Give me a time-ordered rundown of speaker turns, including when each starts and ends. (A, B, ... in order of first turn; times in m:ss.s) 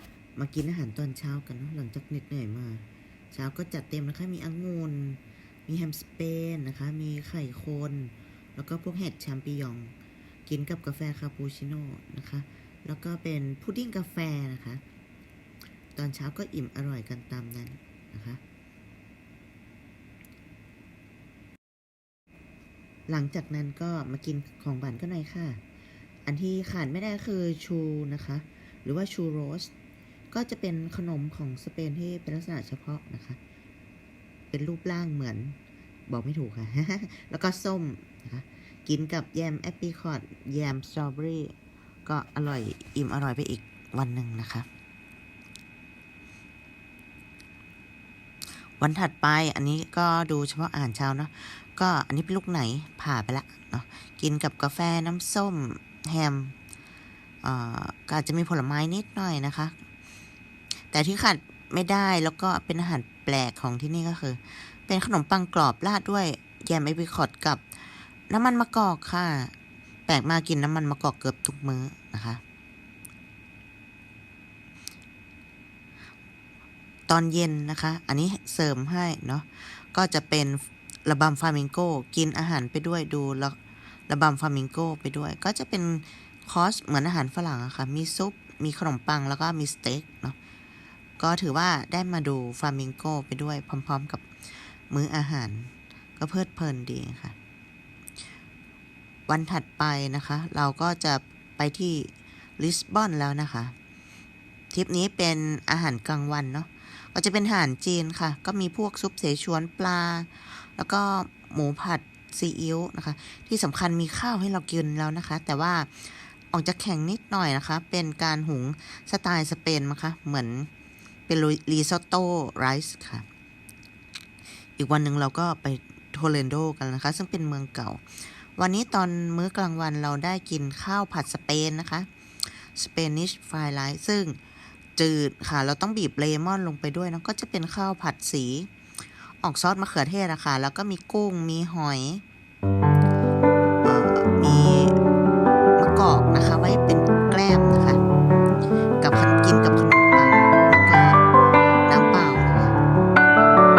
0:00.4-0:10.0 A
0:10.5-0:14.8 A
0:16.0-0:18.4 A
0:23.1-0:25.6 A
0:26.2-0:29.7 A
0:30.3-0:33.4 A
0:34.5-0:35.6 A
0:36.1-0:44.7 A
0:48.8-0:56.6 A
0:57.4-0:59.8 A
1:00.9-1:09.5 A
1:10.1-1:12.4 A
1:17.1-1:23.6 A
1:24.1-1:30.4 A
1:31.2-1:37.4 A
1:39.3-1:43.8 A
1:44.7-2:00.7 A
2:01.3-2:03.3 A
2:04.8-2:14.4 A
2:15.0-2:18.7 A
2:19.4-2:22.2 A
2:23.8-2:25.0 A
2:25.8-2:28.0 A
2:29.0-2:31.2 A
2:31.9-2:32.8 A